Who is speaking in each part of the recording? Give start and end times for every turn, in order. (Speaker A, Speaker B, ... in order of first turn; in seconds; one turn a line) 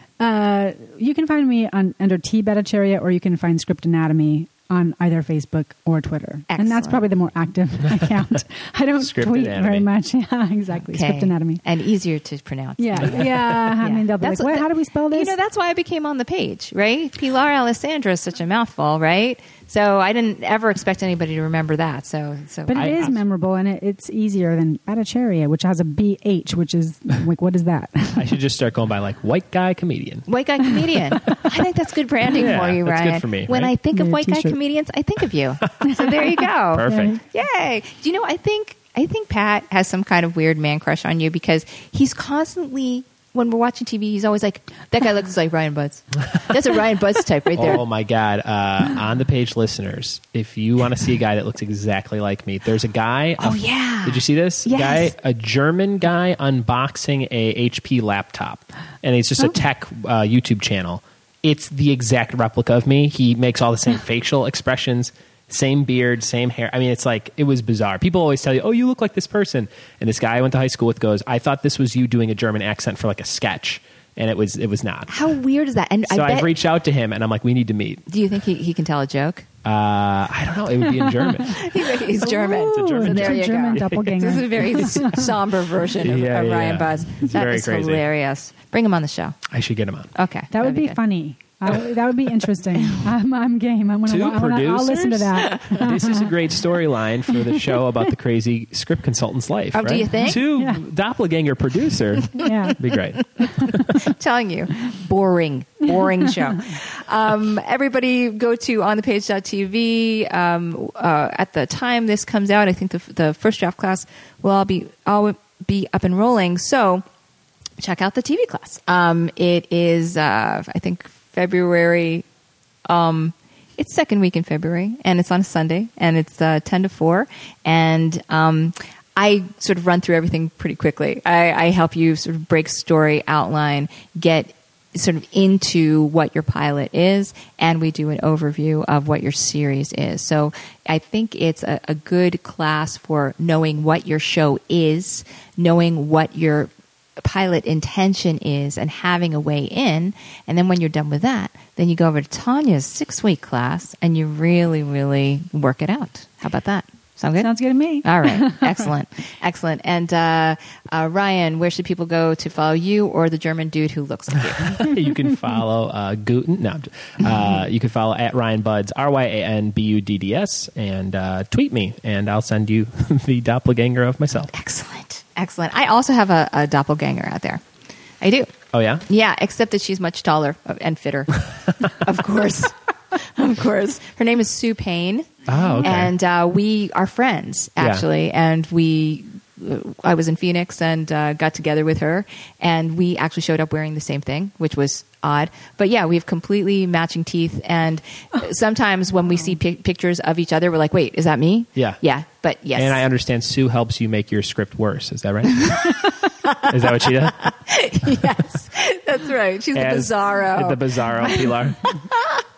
Speaker A: 0.2-11.6
Speaker B: 6.5-7.0
Speaker C: 9.0-9.9
Speaker B: 10.9-23.0
Speaker A: 12.8-15.3
Speaker A: 22.7-28.4
Speaker C: 22.7-23.2
Speaker C: 28.1-30.3
Speaker B: 30.3-47.8
Speaker C: 32.3-33.7
Speaker A: 33.9-34.6
Speaker A: 35.8-37.2
Speaker C: 36.7-37.2
Speaker C: 47.5-75.2
Speaker B: 53.4-55.1
Speaker B: 75.1-76.5
Speaker C: 76.1-78.1
Speaker B: 78.1-79.5
Speaker C: 79.6-81.6
Speaker A: 80.8-85.3
Speaker B: 81.5-89.4
Speaker C: 82.7-85.0
Speaker C: 86.0-88.0
Speaker C: 89.5-90.1
Speaker B: 90.1-91.0
Speaker A: 90.5-96.3
Speaker C: 94.0-104.0
Speaker B: 95.4-95.8
Speaker A: 97.3-98.0
Speaker B: 99.7-100.5
Speaker A: 100.3-100.8
Speaker A: 102.4-102.7
Speaker B: 103.4-117.0
Speaker B: 117.8-122.2
Speaker B: 122.8-157.5
Speaker A: 157.4-158.9
Speaker B: 158.0-164.9
Speaker C: 164.7-174.5
Speaker B: 174.5-177.6
Speaker B: 178.2-178.5
Speaker C: 178.7-179.0
Speaker B: 179.1-203.0
Speaker C: 185.5-186.1
Speaker A: 185.6-185.9
Speaker C: 187.8-188.0
Speaker C: 202.7-206.0
Speaker B: 205.6-212.4
Speaker C: 206.6-207.5
Speaker C: 209.7-212.0